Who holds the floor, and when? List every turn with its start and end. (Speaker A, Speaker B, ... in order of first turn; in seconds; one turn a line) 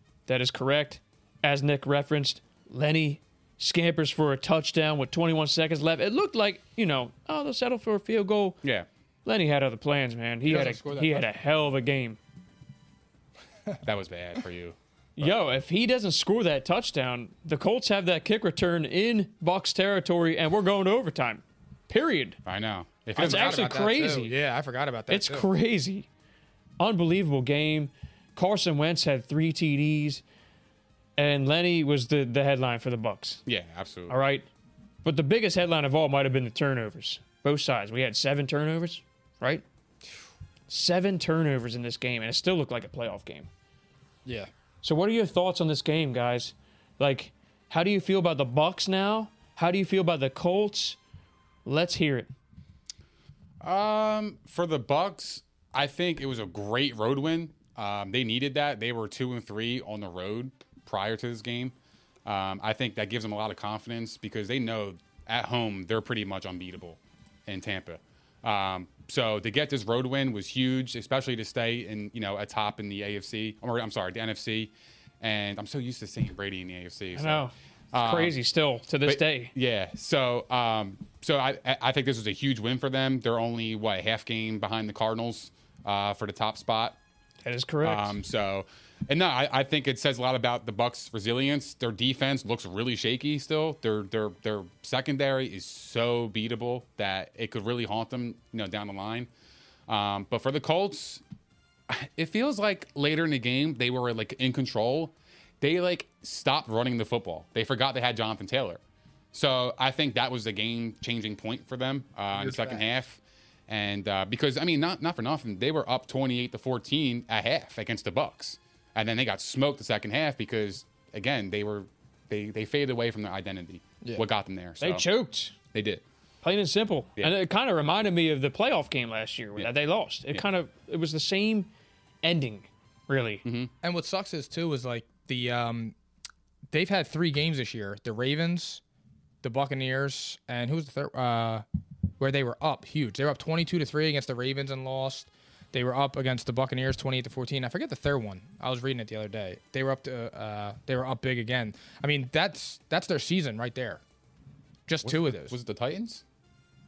Speaker A: 0.3-8.6
Speaker A: 9.2-12.2
Speaker B: 10.4-11.3
Speaker C: 13.8-15.3
Speaker A: 15.2-22.4
Speaker C: 22.4-23.7
Speaker B: 23.1-25.5
Speaker A: 23.2-24.3
Speaker A: 25.1-26.1
Speaker A: 26.8-30.2
Speaker A: 31.2-33.4
Speaker C: 33.5-34.1
Speaker A: 34.1-34.5
Speaker A: 35.0-39.6
Speaker A: 40.7-43.5
Speaker B: 44.2-44.5
Speaker A: 44.8-51.0
Speaker A: 51.6-52.3
Speaker C: 53.6-61.7
Speaker C: 62.2-78.3
Speaker A: 77.1-79.5
Speaker C: 79.0-87.0
Speaker A: 87.4-88.2
Speaker C: 87.8-99.3
Speaker C: 99.9-101.2
Speaker C: 101.9-108.8
Speaker C: 109.3-125.1
Speaker B: 112.3-112.8
Speaker A: 124.8-125.5
Speaker C: 125.7-126.0
Speaker A: 126.4-131.7
Speaker A: 132.2-133.4
Speaker C: 133.4-133.7
Speaker B: 133.8-135.9
Speaker B: 136.7-138.8
Speaker B: 139.4-141.6
Speaker B: 142.2-154.0
Speaker B: 154.9-155.6
Speaker C: 155.0-156.2